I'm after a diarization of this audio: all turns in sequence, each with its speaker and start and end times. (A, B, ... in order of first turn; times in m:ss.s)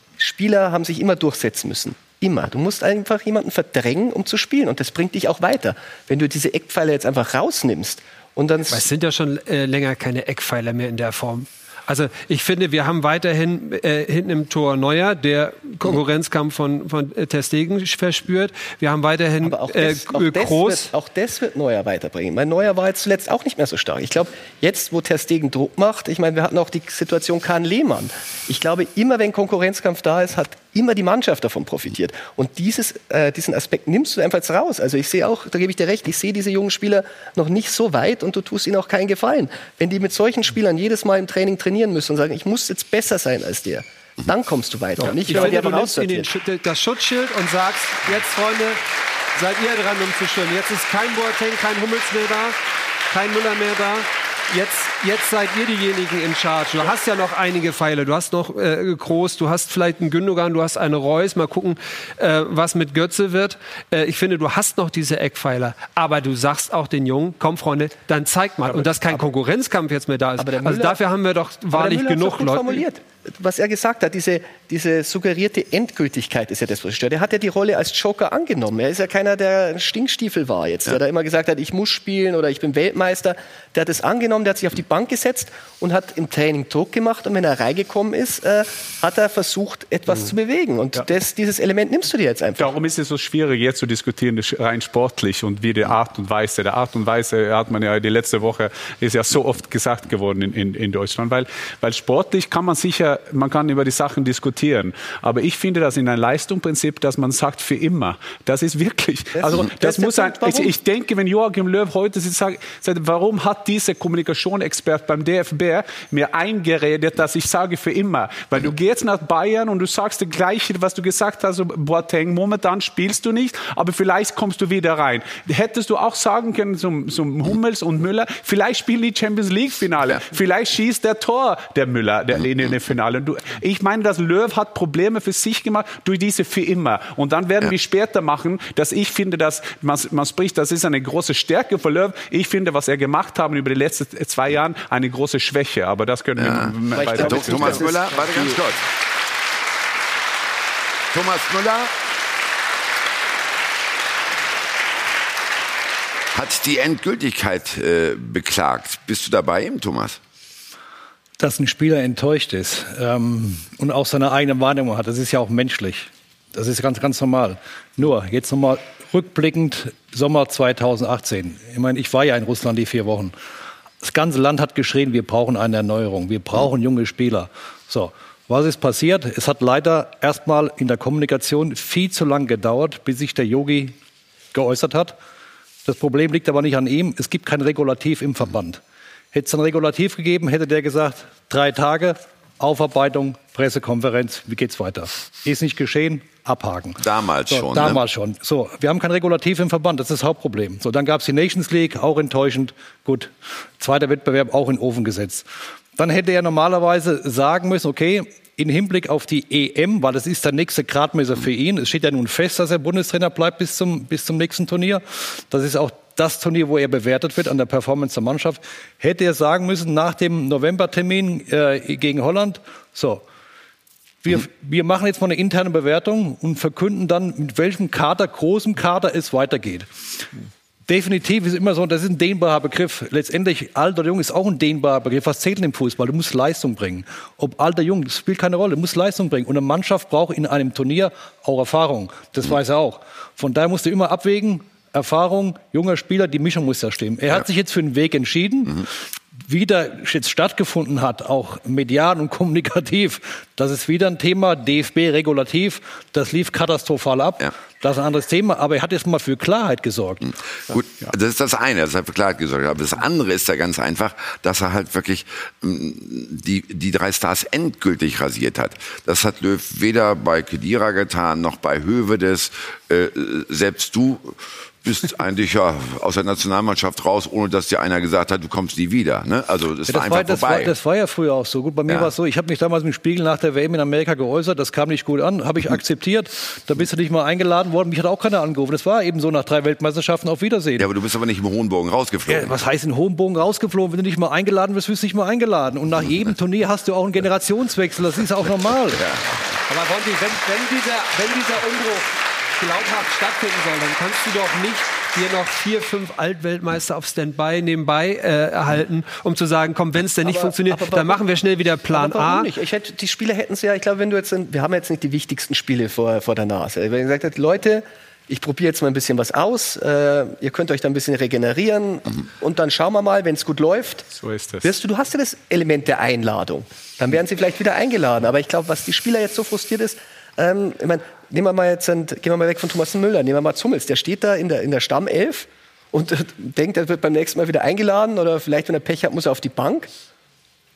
0:00.2-0:08.8 A
0:08.7-0:20.9 B
0:19.4-0:46.3 A
0:45.0-0:48.8 B
0:49.3-1:12.8 B
1:10.4-1:11.0 A
1:11.7-1:32.7 A
1:32.6-2:27.9 C
1:49.4-1:50.7 A
2:26.4-2:28.8 D
2:26.9-2:28.6 A
2:31.1-2:31.9 D
2:36.3-2:40.2 D
2:41.4-2:53.3 E
2:54.0-3:04.0 E
3:04.5-3:05.2 E
3:05.8-3:08.8 E
3:09.3-3:43.2 E
3:17.0-3:18.0 D
3:44.2-3:49.9 E
3:50.9-4:20.3 E
4:20.7-4:40.7 D
4:39.9-4:50.9 E
4:50.8-4:52.6 D
4:52.2-4:59.0 E
4:59.0-4:59.2 D
4:59.7-5:12.5 B
5:10.2-5:11.2 A
5:11.9-5:24.0 A
5:24.1-5:24.7 C
5:24.6-5:39.9 A